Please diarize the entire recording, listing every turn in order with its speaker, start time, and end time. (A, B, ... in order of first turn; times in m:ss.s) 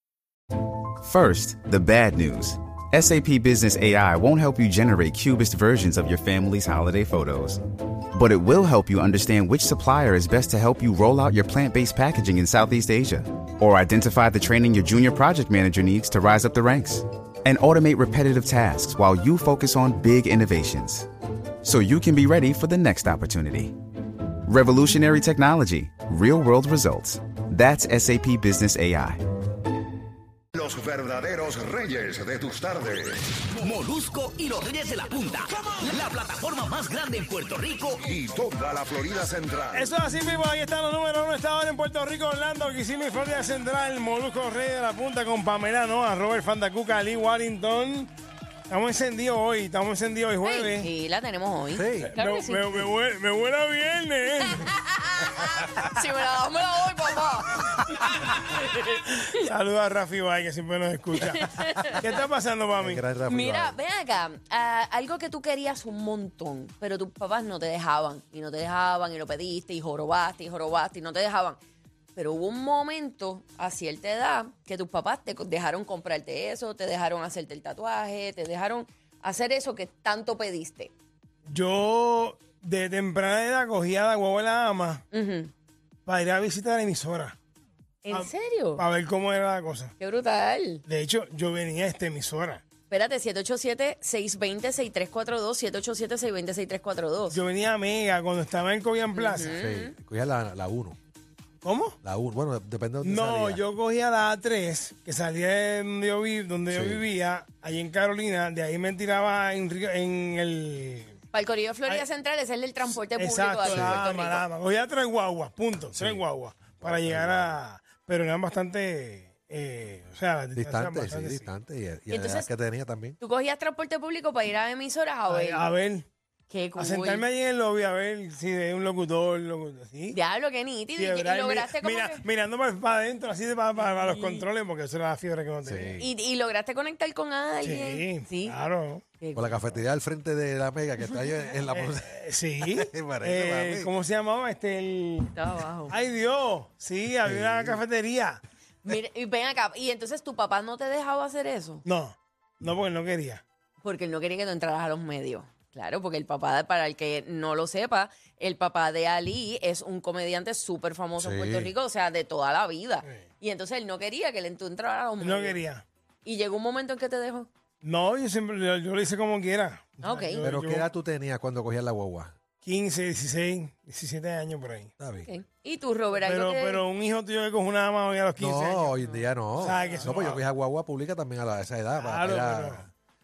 0:01.0-0:07.6 A
0:08.1-0:21.1 A
0:21.6-0:23.8 A
0:24.4-0:29.2 A
0:30.5-0:33.3 B
0:33.5-0:38.1 C
0:38.0-0:39.9 B
0:39.7-0:48.1 D
0:48.7-0:50.9 D
0:50.4-0:52.9 E
0:51.7-0:52.1 F
0:52.1-0:54.7 D
0:54.4-0:59.3 E
0:59.1-1:03.0 D
1:01.4-1:02.0 E
1:02.8-1:03.8 F
1:03.3-1:11.6 E
1:12.1-1:20.9 E
1:21.4-1:25.0 D
1:25.1-1:25.5 E
1:26.0-1:27.4 D
1:28.0-1:28.8 E
1:28.1-1:29.9 D
1:30.0-1:30.8 E
1:30.9-1:32.6 D
1:32.9-1:37.4 E
1:37.3-1:39.6 D
1:39.1-1:39.9 E
1:39.6-1:41.0 F
1:41.6-1:42.0 D
1:42.0-1:43.6 F
1:43.0-1:51.1 D
1:46.7-1:47.0 F
1:51.3-1:54.4 E
1:52.9-2:01.5 D
1:53.7-1:54.0 F
1:55.9-1:56.2 F
1:56.8-1:57.6 F
2:00.5-2:03.2 F
2:02.1-2:02.5 E
2:03.2-2:05.6 E
2:05.3-2:06.1 D
2:06.5-2:07.2 E
2:06.8-2:10.2 D
2:10.1-2:12.2 E
2:10.9-2:16.0 D
2:13.8-2:14.5 E
2:15.6-2:16.0 F
2:16.0-2:18.6 E
2:17.6-2:19.0 D
2:19.2-2:19.8 E
2:19.3-2:22.2 F
2:21.7-2:25.3 D
2:22.7-2:23.9 F
2:25.3-2:25.9 E
2:25.9-2:28.4 D
2:27.2-2:27.8 F
2:28.8-2:31.8 E
2:31.8-2:33.4 D
2:33.8-2:45.6 E
2:41.2-2:41.7 F
2:45.2-2:45.8 D
2:46.2-2:47.5 E
2:47.8-2:50.9 D
2:50.0-2:50.4 E
2:50.4-2:52.3 F
2:52.6-2:54.9 D
2:55.0-2:55.3 F
2:55.2-2:56.8 E
2:56.2-2:58.9 D
2:58.4-3:02.9 F
2:59.6-3:00.4 D
3:02.0-3:02.8 D